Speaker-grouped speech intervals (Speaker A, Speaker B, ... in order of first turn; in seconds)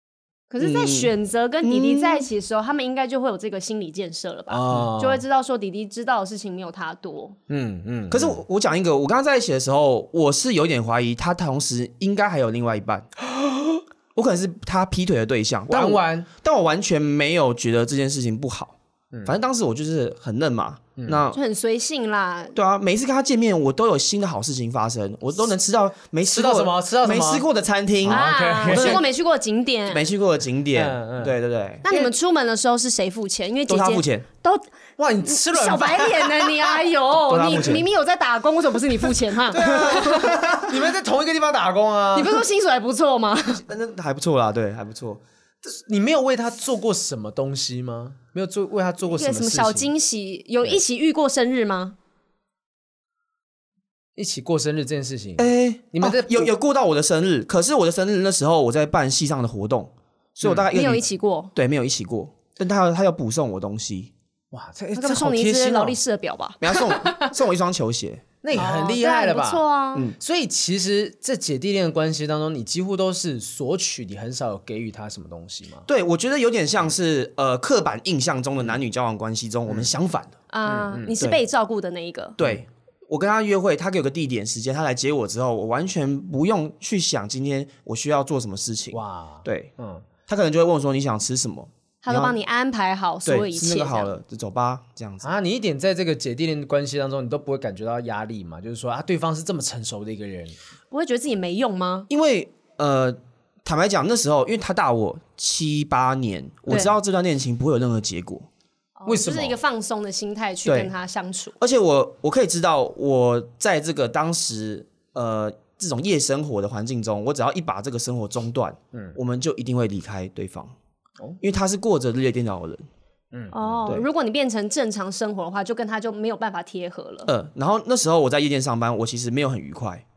Speaker A: 0.5-7.4, 21.3-22.5, 28.1-30.1, 31.8-34.7, 35.2-40.4, 42.1-43.6, 49.0-52.0, 60.7-61.5, 65.0-67.3, 68.5-70.1, 80.5-82.4, 92.0-94.1, 100.9-102.1, 109.0-111.5, 123.5-127.3
Speaker B: 0.6-2.3, 8.1-13.1, 14.2-21.4, 22.5-29.0, 29.9-31.9, 33.7-34.3, 37.3-37.9, 39.6-40.8, 43.7-45.2, 55.4-61.0, 61.5-64.1, 66.6-68.3, 75.9-80.4, 82.4-89.7, 90.3-92.4, 93.2-95.3, 102.1-108.5, 110.7-110.9, 111.6-120.8, 121.4-122.8, 127.3-130.1
Speaker C: 4.5-5.2, 7.5-8.4, 15.7-16.3, 21.0-21.2, 26.3-27.5, 28.0-29.0, 30.7-31.4, 35.0-36.8, 39.5-42.5, 45.7-49.9, 54.2-56.5, 60.4-60.7, 64.5-66.0, 68.4-69.7, 70.2-75.8, 80.7-81.1, 88.9-90.1, 95.2-100.5, 109.1-109.6, 118.9-119.2, 123.3-123.8